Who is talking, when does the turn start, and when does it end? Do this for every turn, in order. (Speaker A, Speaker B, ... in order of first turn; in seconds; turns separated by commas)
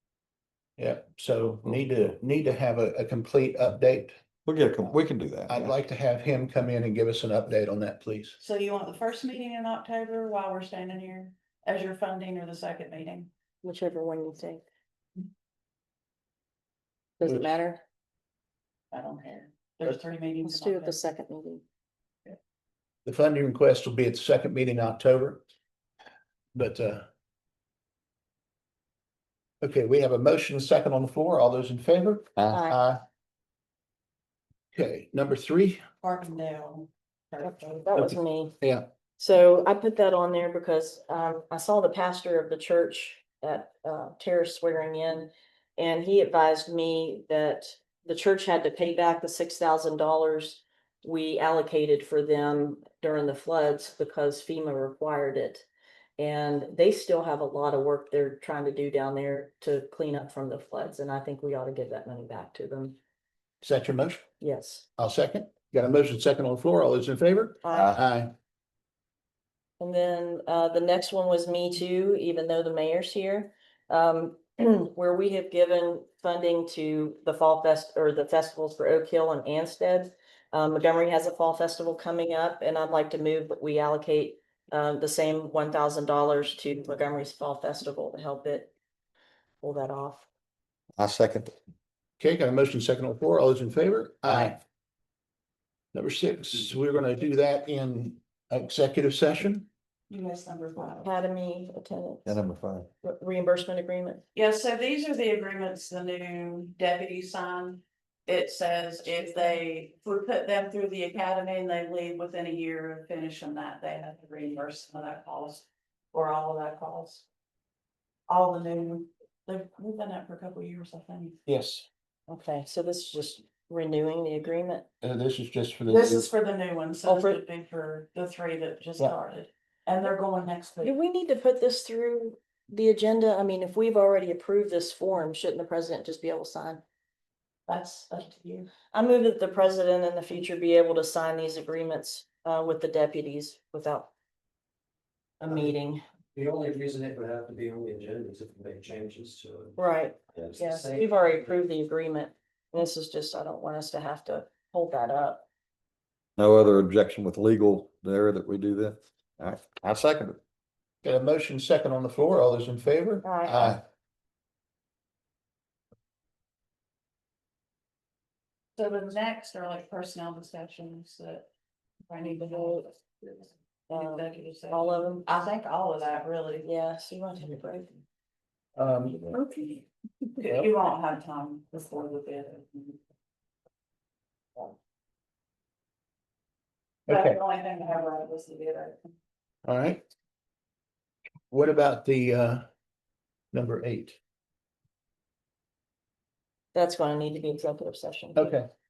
Speaker A: 0.8-4.2, Speaker B: 4.5-5.8, Speaker A: 4.8-8.4, Speaker C: 8.4-13.3, Speaker D: 13.6-14.7, Speaker D: 17.2-17.8, Speaker C: 18.9-21.0, Speaker D: 20.4-21.6, Speaker A: 23.0-25.4, Speaker A: 26.5-27.1, Speaker A: 29.6-33.0, Speaker D: 32.5-32.8, Speaker A: 34.7-35.8, Speaker C: 36.0-37.7, Speaker D: 37.4-38.5, Speaker A: 37.9-38.9, Speaker D: 39.2-55.6, Speaker D: 56.2-63.0, Speaker A: 63.6-64.2, Speaker D: 64.4-64.9, Speaker A: 65.0-68.3, Speaker D: 67.6-68.0, Speaker B: 67.7-68.0, Speaker D: 69.8-88.7, Speaker D: 89.6-90.3, Speaker B: 91.0-91.5, Speaker A: 92.2-94.6, Speaker A: 95.9-99.7, Speaker C: 100.1-101.1, Speaker D: 100.9-102.3, Speaker B: 102.2-102.9, Speaker D: 103.0-104.2, Speaker C: 104.3-117.2, Speaker C: 118.3-121.4, Speaker A: 121.5-121.9, Speaker D: 122.3-124.8, Speaker A: 125.0-126.3, Speaker C: 125.9-130.9, Speaker D: 127.0-127.4, Speaker D: 130.8-136.8, Speaker C: 137.7-138.7, Speaker D: 138.7-144.1, Speaker D: 145.4-146.0, Speaker E: 146.3-149.7, Speaker D: 149.8-155.4, Speaker E: 150.4-151.0, Speaker B: 156.4-160.4, Speaker A: 161.0-163.8, Speaker D: 163.2-163.8, Speaker C: 168.8-171.5, Speaker C: 172.1-176.7, Speaker D: 172.3-172.8, Speaker D: 173.9-175.3, Speaker D: 176.6-178.0, Speaker A: 178.8-179.3, Speaker D: 179.3-179.8, Speaker C: 180.4-183.0, Speaker A: 187.1-187.4, Speaker C: 187.1-189.1, Speaker A: 189.6-190.0, Speaker A: 191.5-192.6, Speaker A: 193.5-194.2, Speaker D: 196.7-198.6, Speaker A: 198.3-198.7